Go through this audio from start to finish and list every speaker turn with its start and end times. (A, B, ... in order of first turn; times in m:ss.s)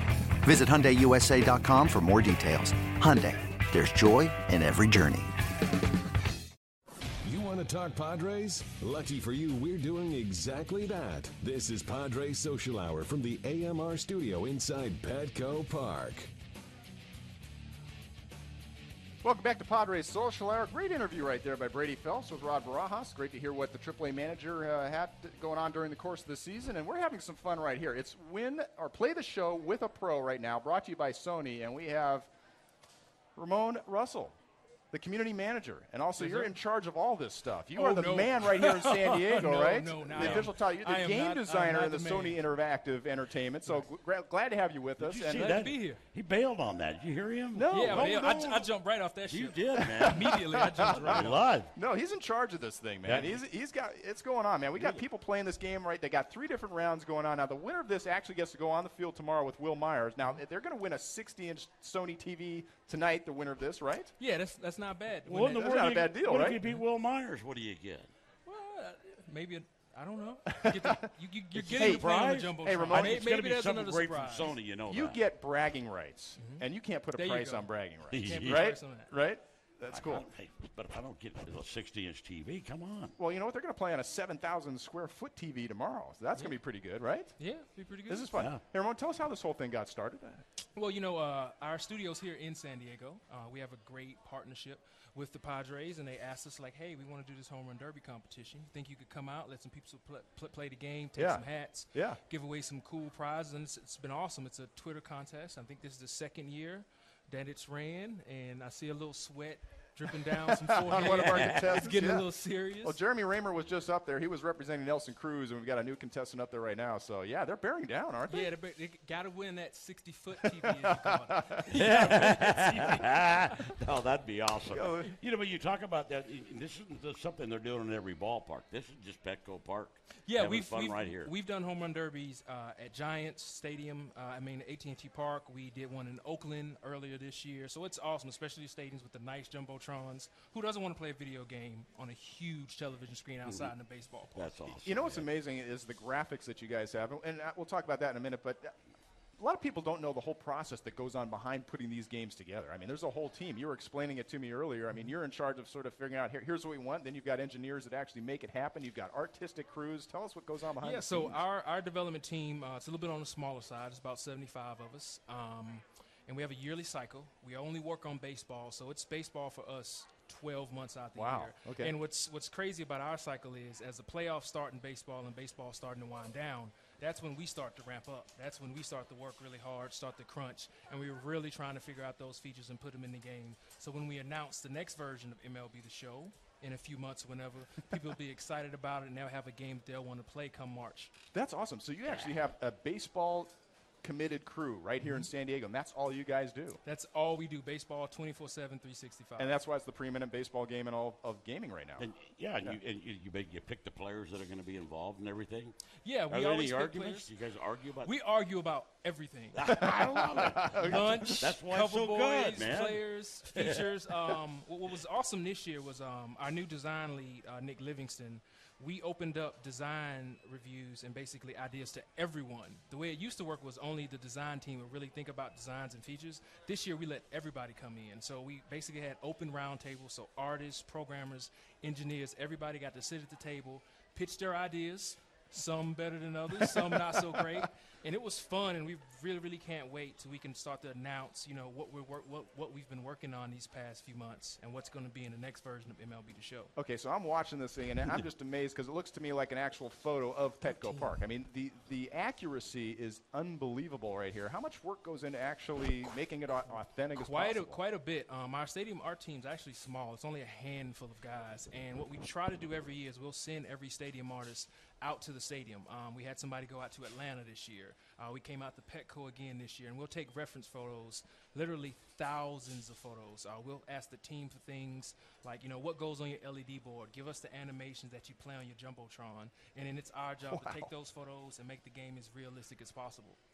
0:00.4-0:05.3 A
0:07.2-0:16.3 B
0:19.2-0:32.3 C
0:33.4-0:34.4 C
0:34.9-0:45.7 C
0:36.2-0:36.6 D
0:37.7-0:42.4 D
0:40.1-0:40.5 E
0:45.0-0:46.0 D
0:45.0-0:48.6 E
0:47.5-0:48.6 C
0:47.7-0:51.5 D
0:49.2-0:51.7 E
0:49.7-1:04.1 C
0:53.0-0:53.4 E
0:54.7-0:55.0 E
1:04.2-1:05.7 D
1:05.2-1:08.1 E
1:05.4-1:06.6 C
1:08.4-1:14.5 D
1:10.5-1:11.0 C
1:11.5-1:15.2 E
1:11.7-1:13.2 C
1:14.9-1:20.2 C
1:16.4-1:19.1 D
1:18.1-1:18.7 E
1:19.9-1:23.2 E
1:23.2-1:27.3 C
1:26.3-1:26.6 D
1:27.4-1:28.3 D
1:28.1-1:30.4 C
1:28.3-1:28.6 E
1:30.7-1:53.0 D
1:41.2-1:42.2 C
1:50.5-1:58.5 C
1:50.9-1:51.7 E
1:58.3-2:03.0 D
2:00.9-2:02.9 C
2:01.7-2:11.3 E
2:04.7-2:05.1 C
2:10.2-2:24.6 D
2:23.4-2:23.7 E
2:24.3-2:25.3 E
2:24.8-2:28.7 C
2:29.4-2:41.4 C
2:40.8-3:11.1 D
2:51.2-2:51.9 C
3:11.3-3:13.5 C
3:14.0-3:16.8 C
3:16.8-3:19.6 D
3:19.4-3:22.0 C
3:22.0-3:25.8 E
3:26.0-3:27.3 D
3:26.3-3:28.1 E
3:28.0-3:29.9 D
3:29.5-3:33.9 E
3:29.7-3:31.4 C
3:30.7-4:06.7 D
4:06.8-4:17.8 C
4:10.6-4:11.1 D
4:17.2-4:43.4 D
4:40.5-4:40.9 C